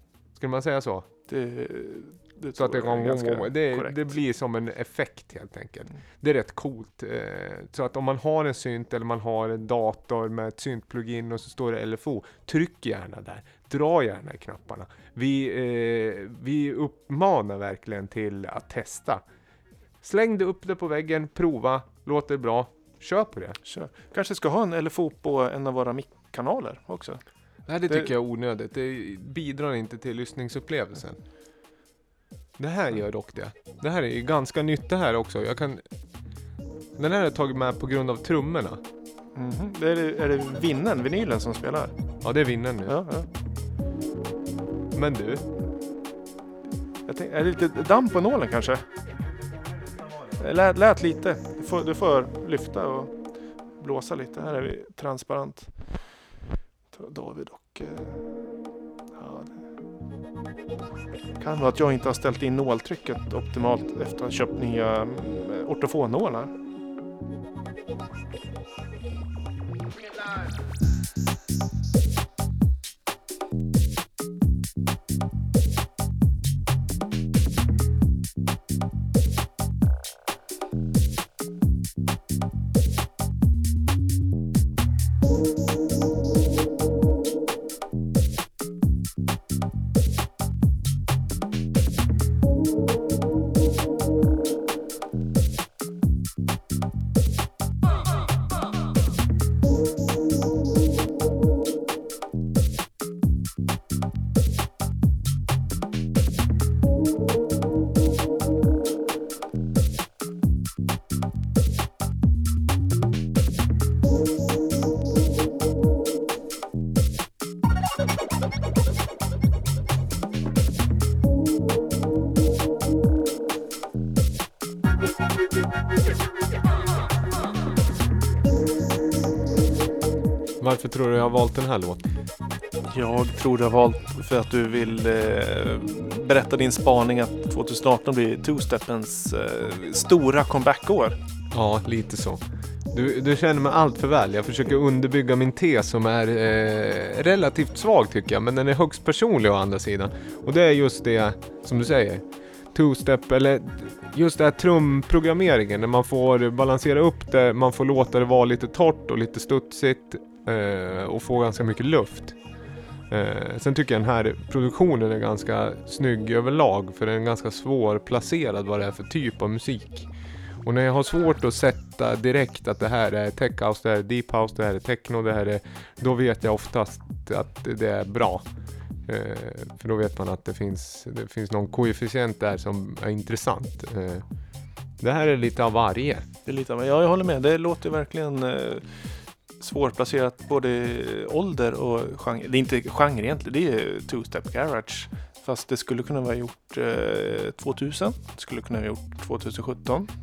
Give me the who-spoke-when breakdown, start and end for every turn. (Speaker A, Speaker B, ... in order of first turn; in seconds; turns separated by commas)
Speaker A: 0.3-1.1, Speaker B: 1.3-4.2, Speaker A: 2.6-19.2, Speaker A: 20.0-23.6, Speaker B: 23.6-27.2, Speaker A: 27.6-31.2, Speaker A: 32.6-35.8, Speaker A: 37.0-38.8, Speaker B: 39.3-41.9, Speaker A: 42.2-43.0, Speaker B: 42.8-43.3, Speaker A: 44.9-45.5, Speaker B: 47.0-48.8, Speaker A: 49.5-50.4, Speaker B: 50.4-53.2, Speaker B: 53.7-56.1, Speaker B: 56.9-58.5, Speaker B: 59.1-59.6, Speaker B: 61.4-66.5, Speaker A: 130.6-132.0, Speaker B: 132.9-141.2, Speaker A: 141.5-162.4, Speaker A: 163.1-170.1, Speaker A: 170.6-178.4, Speaker A: 179.1-184.2, Speaker A: 185.0-186.3, Speaker B: 186.4-200.1